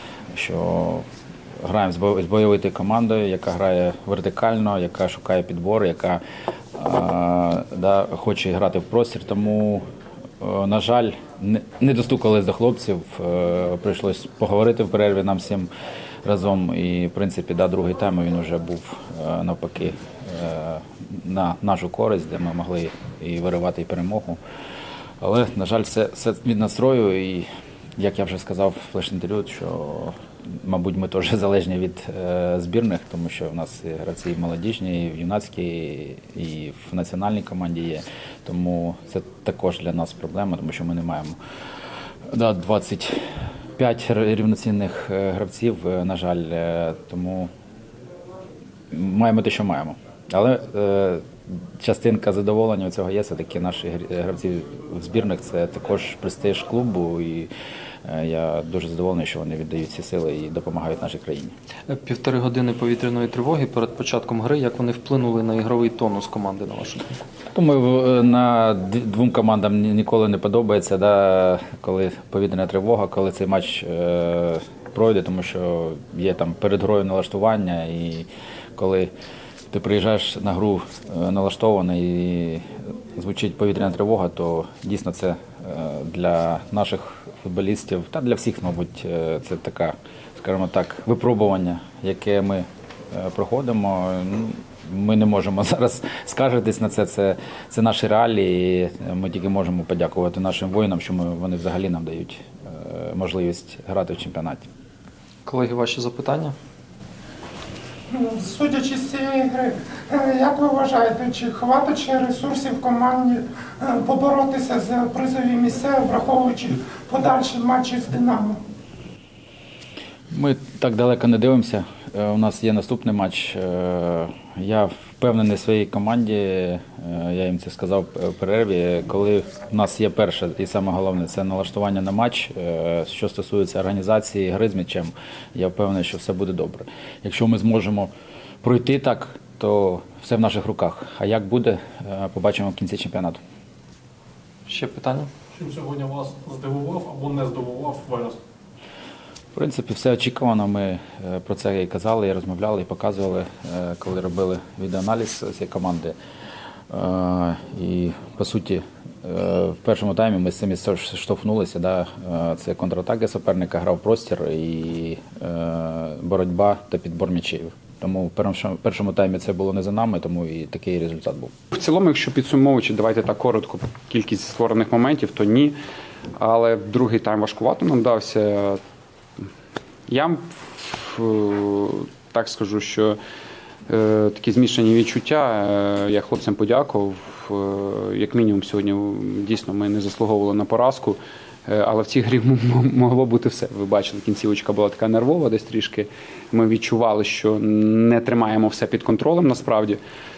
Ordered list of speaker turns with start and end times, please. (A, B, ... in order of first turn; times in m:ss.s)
0:00.3-0:01.0 A
0:01.6-0:06.2 A
0:06.7-0:09.8 A
0:10.4-0:15.7 A
0:16.2-0:24.4 A
0:25.2-0:41.4 A
0:42.3-0:43.2 A
0:43.8-0:47.5 A
0:48.9-0:51.3 A
0:51.8-0:57.5 A
0:58.0-1:01.5 A
1:01.9-1:07.1 B
1:07.5-1:19.1 A
1:19.7-1:44.6 A
1:45.4-1:46.5 B
1:48.1-1:58.6 C
2:00.3-2:18.1 A
2:18.6-2:23.4 A
2:24.7-2:25.3 B
2:25.5-2:28.4 D
2:29.5-2:36.1 A
2:36.9-2:51.5 A
2:51.7-2:55.8 E
2:56.4-2:58.8 E
3:00.1-3:03.2 E
3:03.9-3:20.0 E